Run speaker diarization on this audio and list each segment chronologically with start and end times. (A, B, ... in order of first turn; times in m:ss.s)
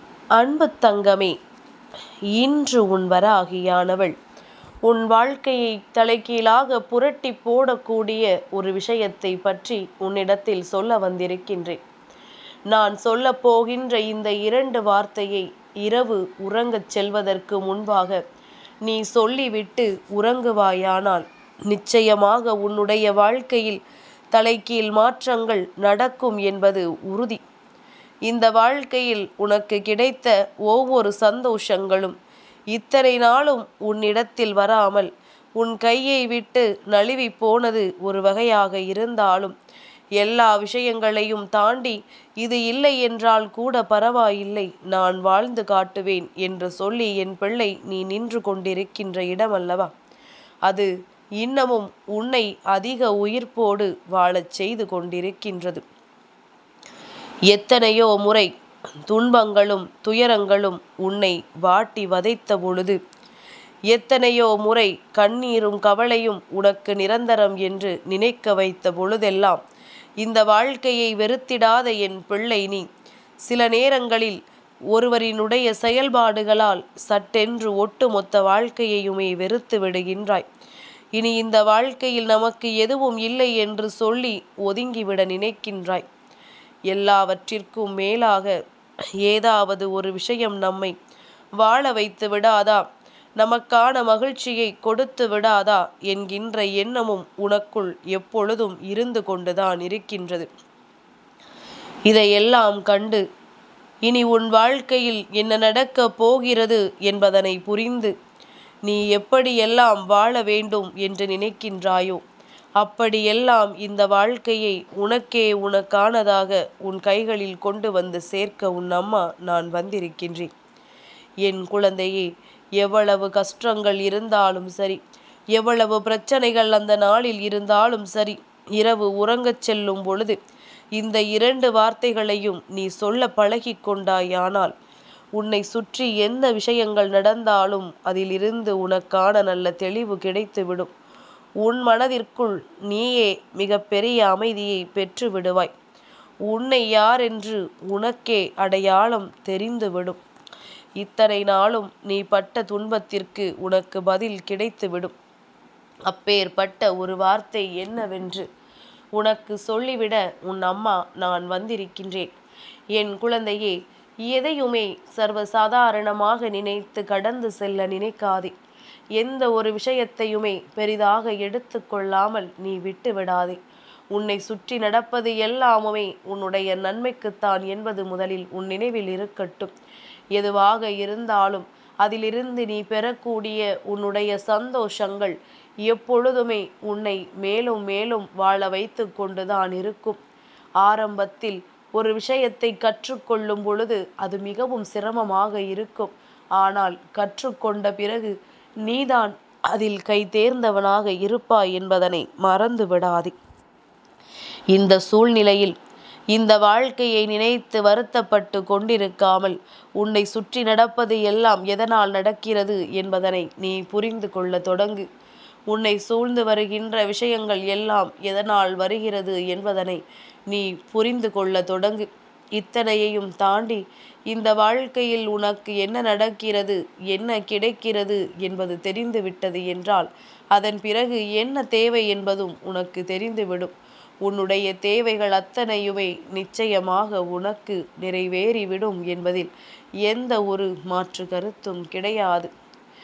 0:00.4-0:01.3 A
0:02.3-0:04.1 A
0:04.8-0:11.8 A
0:12.7-0:18.2 A
0:18.8-0:23.8 A
0:24.3-0:27.4 A
0:28.3-0:32.2 A
0:32.7-0:39.5 A
0:40.2-0:49.9 A
0:50.6-0:55.8 A
0:57.5-0:58.5 A
0:59.1-1:03.0 A
1:03.9-1:09.6 A
1:10.2-1:12.8 A
1:13.5-1:14.4 A
1:14.9-1:20.5 A
1:21.2-1:26.0 A
1:26.9-1:28.6 A
1:29.2-1:30.9 A
1:31.6-1:32.8 A
1:33.4-1:40.5 A
1:42.1-1:43.2 A
1:44.0-1:48.1 A
1:48.8-1:52.2 A
1:52.8-2:00.5 A
2:01.4-2:05.0 A
2:05.5-2:10.4 A
2:11.0-2:14.7 A
2:15.4-2:20.9 A
2:21.6-2:25.7 A
2:26.5-2:30.2 A
2:31.0-2:35.2 A
2:36.1-2:38.4 A
2:39.2-2:42.3 A
2:43.0-2:48.5 A
2:49.2-2:53.6 A
2:54.1-2:59.7 A
3:00.3-3:10.2 A
3:10.8-3:18.3 A
3:18.8-3:23.3 A
3:24.7-3:25.7 A
3:26.3-3:35.1 A
3:35.7-3:59.5 A
4:00.0-4:02.5 A